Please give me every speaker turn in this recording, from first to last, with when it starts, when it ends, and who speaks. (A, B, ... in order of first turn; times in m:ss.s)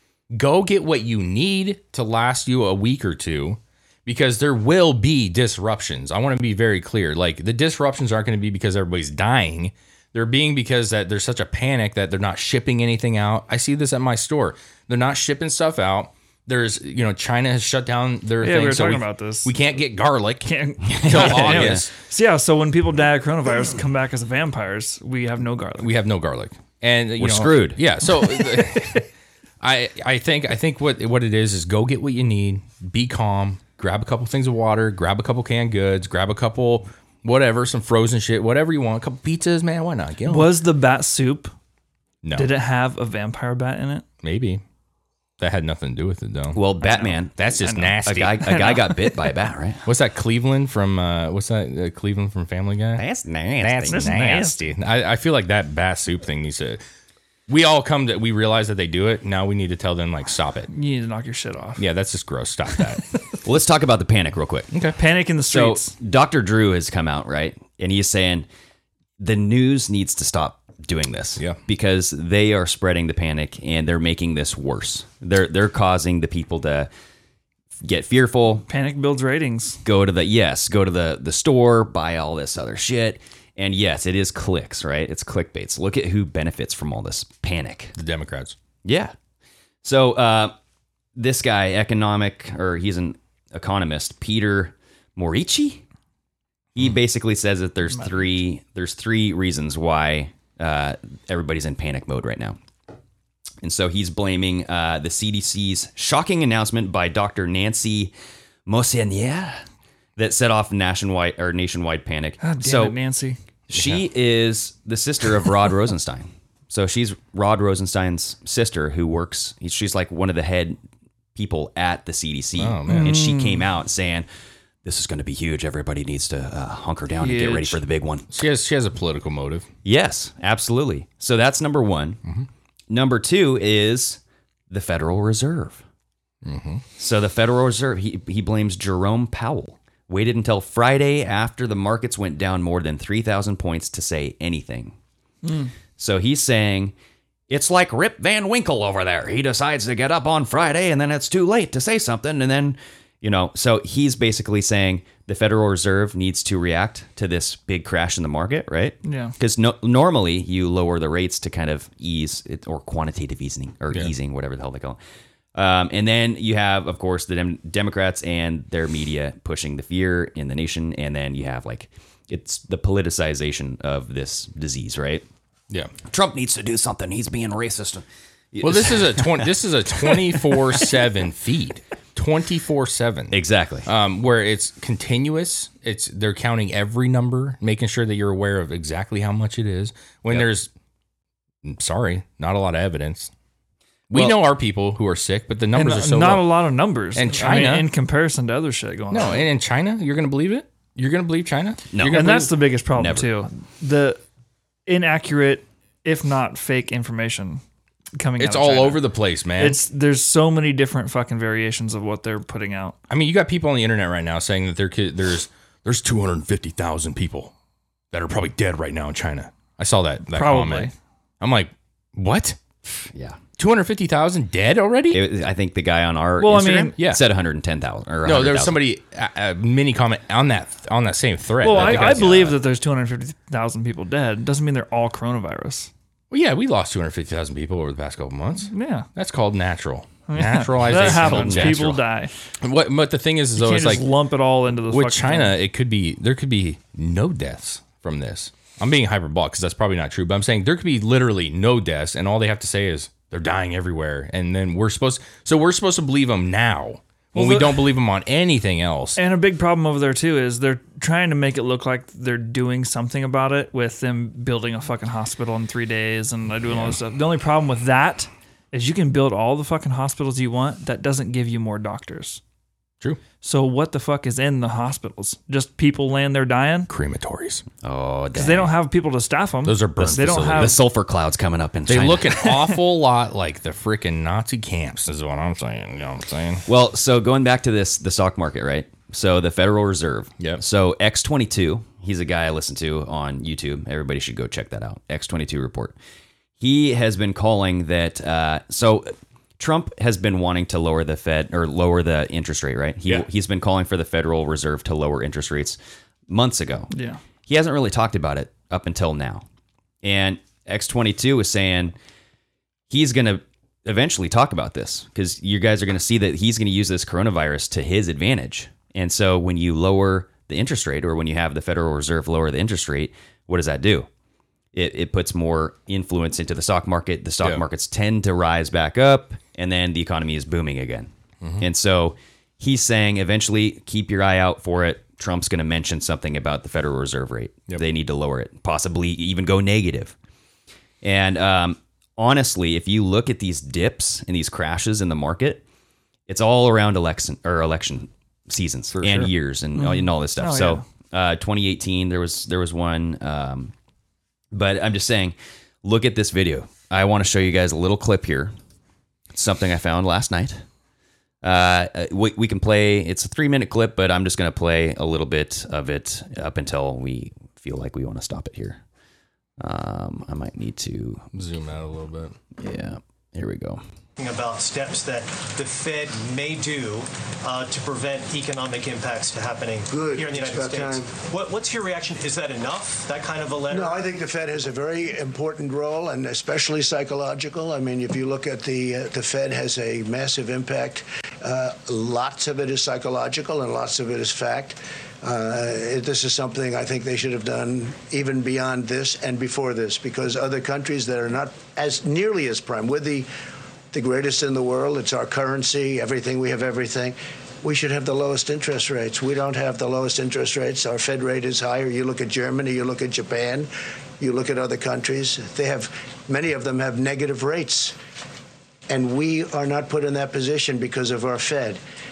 0:00.3-0:21.9 A
0:18.4-0:19.5 B
0:20.4-0:25.9 B
0:20.9-0:21.9 C
0:25.8-0:29.0 A
0:27.2-0:27.8 C
0:29.6-0:40.5 A
0:40.3-0:41.5 B
0:42.2-0:42.5 A
0:42.4-0:44.0 B
0:44.2-0:44.6 A
0:45.4-0:46.6 A
0:46.5-0:47.4 C
0:46.8-0:49.2 B
0:47.4-0:48.5 A
0:48.0-0:49.8 C
0:49.9-0:53.0 A
0:53.0-0:54.2 C
0:53.6-0:56.8 A
0:53.9-0:54.6 B
0:57.5-1:00.7 A
1:00.7-1:01.8 B
1:01.8-1:03.0 A
1:03.4-1:04.7 C
1:04.7-1:05.0 A
1:05.0-1:05.9 B
1:05.5-1:08.5 C
1:09.2-1:16.9 C
1:17.8-1:18.6 C
1:18.7-1:19.8 B
1:19.8-1:27.9 C
1:27.9-1:28.6 A
1:28.8-1:29.1 C
1:29.8-1:30.5 C
1:31.2-1:35.8 C
1:36.8-1:42.6 C
1:37.9-1:38.2 B
1:43.6-1:48.1 C
1:48.6-1:49.6 C
1:50.2-1:53.0 C
1:52.4-1:53.4 B
1:53.7-2:00.8 C
1:53.7-1:54.0 A
2:01.4-2:04.3 C
2:02.6-2:03.2 A
2:02.9-2:03.7 B
2:04.8-2:08.3 C
2:07.2-2:07.8 B
2:08.3-2:09.7 A
2:09.8-2:12.2 C
2:12.9-2:15.8 C
2:16.4-2:16.8 A
2:17.0-2:24.9 C
2:25.4-2:25.7 B
2:26.0-2:26.9 C
2:27.5-2:45.0 C
2:39.0-2:39.4 B
2:45.5-2:55.2 C
2:56.1-2:59.5 C
2:58.6-3:10.7 A
3:00.1-3:00.6 C
3:03.3-3:03.9 C
3:11.6-3:13.3 A
3:14.1-3:16.6 A
3:14.1-3:14.4 C
3:15.7-3:19.4 B
3:17.1-3:17.9 A
3:19.1-3:22.5 A
3:21.9-3:22.3 C
3:22.1-3:24.2 B
3:22.9-3:23.3 C
3:24.9-3:27.6 B
3:28.2-3:29.0 B
3:28.4-3:29.8 A
3:29.6-3:33.0 B
3:33.1-3:37.5 A
3:38.1-3:42.6 A
3:40.3-3:40.9 B
3:43.1-3:43.4 C
3:43.6-3:45.2 A
3:45.1-3:48.8 C
3:46.4-3:46.9 B
3:48.2-3:52.6 A
3:51.6-3:55.9 B
3:51.7-3:52.3 C
3:56.3-4:02.0 A
3:58.7-3:59.1 B
4:00.3-4:02.3 B
4:00.9-4:02.0 C
4:02.6-4:04.1 A
4:03.6-4:05.5 B
4:04.9-4:19.2 A
4:17.3-4:17.9 B
4:19.2-4:32.4 B
4:26.7-4:27.0 A
4:33.4-4:36.9 B
4:36.9-4:37.6 A
4:37.8-4:38.7 C
4:38.4-4:40.8 B
4:39.6-4:40.7 A
4:40.0-4:42.5 C
4:41.9-4:46.6 A
4:46.7-4:55.9 C
4:56.6-5:05.8 C
5:06.3-5:06.9 C
5:06.9-5:07.2 B
5:07.5-5:09.4 C
5:10.0-5:11.9 C
5:12.9-5:24.1 C
5:24.7-5:40.1 C
5:31.4-5:31.6 A
5:41.0-5:45.6 C
5:46.3-5:53.7 C
5:48.9-5:49.3 A
5:49.8-5:50.8 B
5:54.5-5:58.5 C
5:59.3-6:00.6 C
6:01.4-6:08.8 C
6:09.6-6:11.2 C
6:11.3-6:12.4 A
6:12.6-6:13.8 C
6:14.2-6:24.0 D
6:19.9-6:21.1 E
6:23.7-6:43.3 E
6:43.9-6:53.7 E
6:54.2-6:57.9 E
6:58.9-7:01.8 E